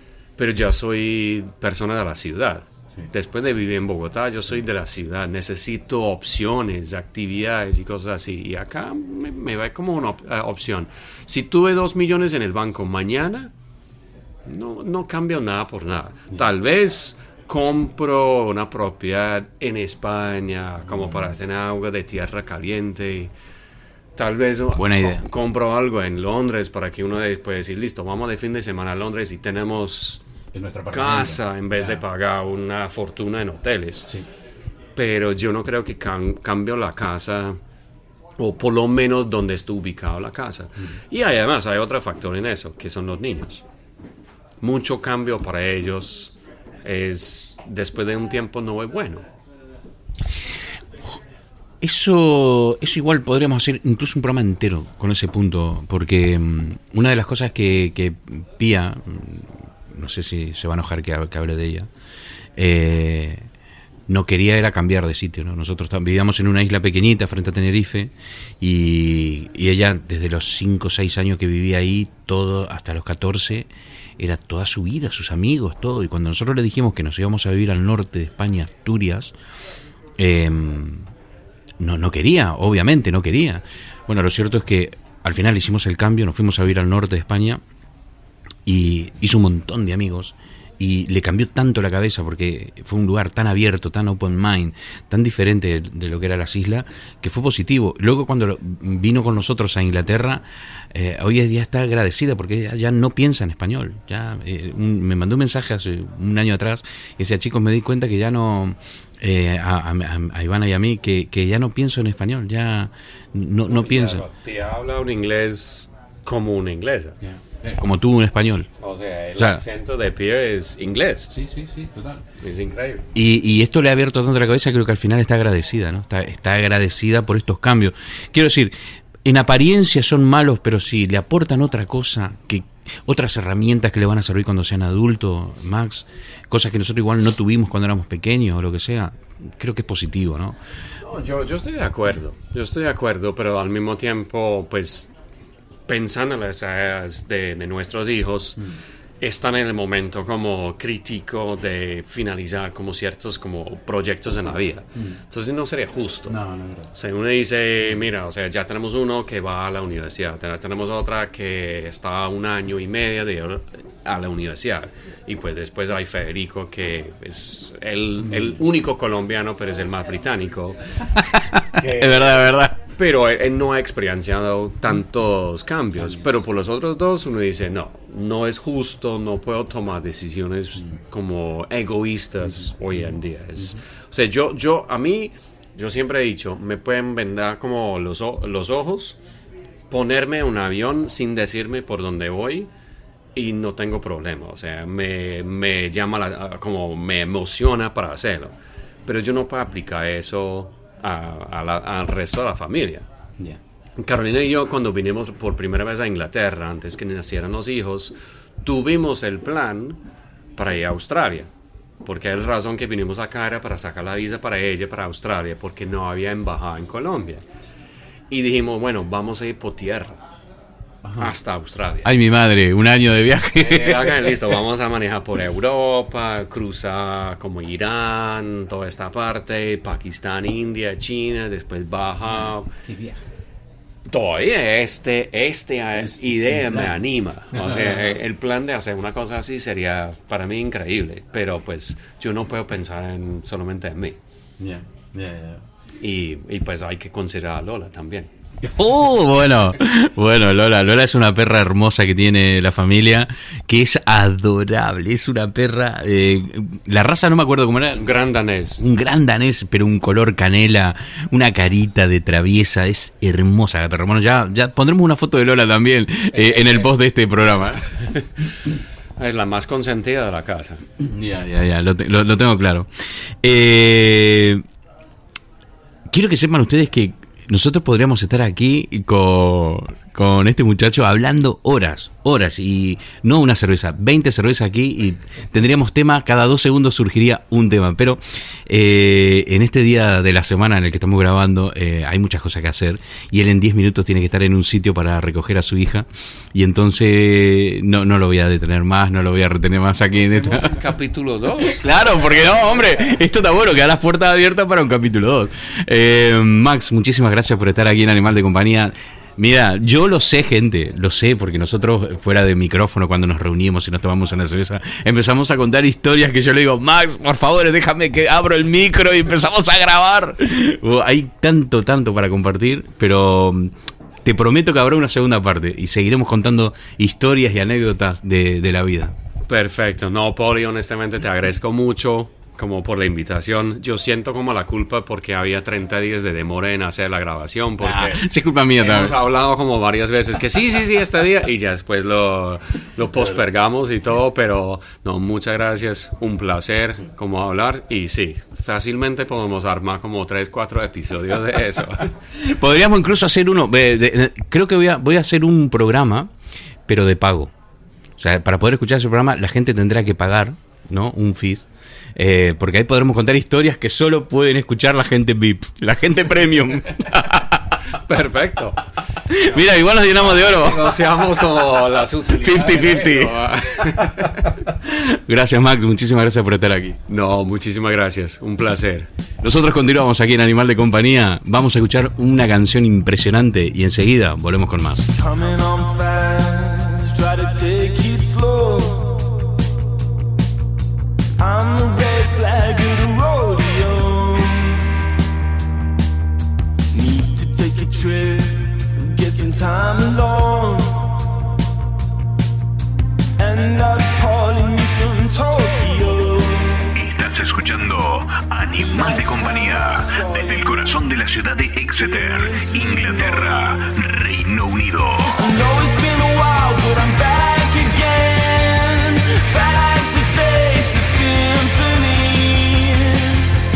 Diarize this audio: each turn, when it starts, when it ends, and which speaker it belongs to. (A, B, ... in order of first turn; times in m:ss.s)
0:00.4-0:13.5 A
0:14.5-0:23.3 A
0:24.2-0:30.2 A
0:24.8-0:25.2 B
0:30.5-0:32.0 B
0:30.9-0:34.1 A
0:35.0-0:37.6 A
0:38.4-0:43.6 A
0:44.6-0:49.2 A
0:51.8-1:01.9 B
1:02.6-1:03.5 B
1:04.1-1:19.3 B
1:20.2-1:21.1 B
1:21.8-1:27.6 B
1:28.6-1:54.2 B
1:53.7-1:57.2 A
1:57.2-1:58.7 B
1:58.8-2:01.3 A
1:59.4-1:59.6 B
2:01.3-2:02.2 B
2:02.4-2:03.0 A
2:03.1-2:08.7 B
2:09.2-2:20.6 B
2:21.0-2:25.1 A
2:25.9-2:28.6 A
2:29.2-2:36.4 A
2:36.2-2:36.9 B
2:36.9-2:50.8 A
2:48.2-2:48.5 B
2:51.2-2:52.7 B
2:51.7-3:09.2 A
3:09.9-3:12.7 A
3:13.4-3:18.5 A
3:19.0-3:23.1 A
3:24.0-3:30.0 A
3:30.6-3:31.5 A
3:32.0-3:37.4 A
3:38.3-3:40.2 A
3:41.0-3:41.3 B
3:41.2-3:42.1 A
3:42.0-3:44.4 B
3:43.6-3:52.7 A
3:52.8-3:53.2 B
3:54.1-4:04.2 A
3:56.0-3:57.0 B
3:57.5-3:58.1 B
4:04.6-4:05.6 B
4:06.0-4:08.3 A
4:08.6-4:18.0 B
4:17.9-4:18.9 A
4:18.8-4:28.2 B
4:26.3-4:26.9 A
4:29.2-4:30.8 A
4:31.0-4:32.9 B
4:33.4-4:34.6 B
4:36.1-5:00.8 B
5:00.1-5:03.0 A
5:01.6-5:23.7 B
5:24.2-5:29.1 B
5:29.5-5:38.3 A
5:37.8-5:39.2 B
5:38.8-5:52.1 A
5:52.3-5:56.3 B
5:56.9-5:57.5 B
5:58.2-6:07.6 B
6:07.9-6:08.8 A
6:09.3-6:10.9 B
6:09.4-6:14.5 A
6:12.4-6:13.3 B
6:14.7-6:17.0 B
6:17.1-6:19.1 A
6:19.4-6:25.1 B
6:25.2-6:29.4 C
6:31.4-6:34.8 C
6:36.9-6:41.2 C
6:43.4-6:46.9 C
6:46.9-6:55.4 D
6:48.8-6:51.0 C
6:51.9-6:53.9 C
6:55.4-7:03.5 C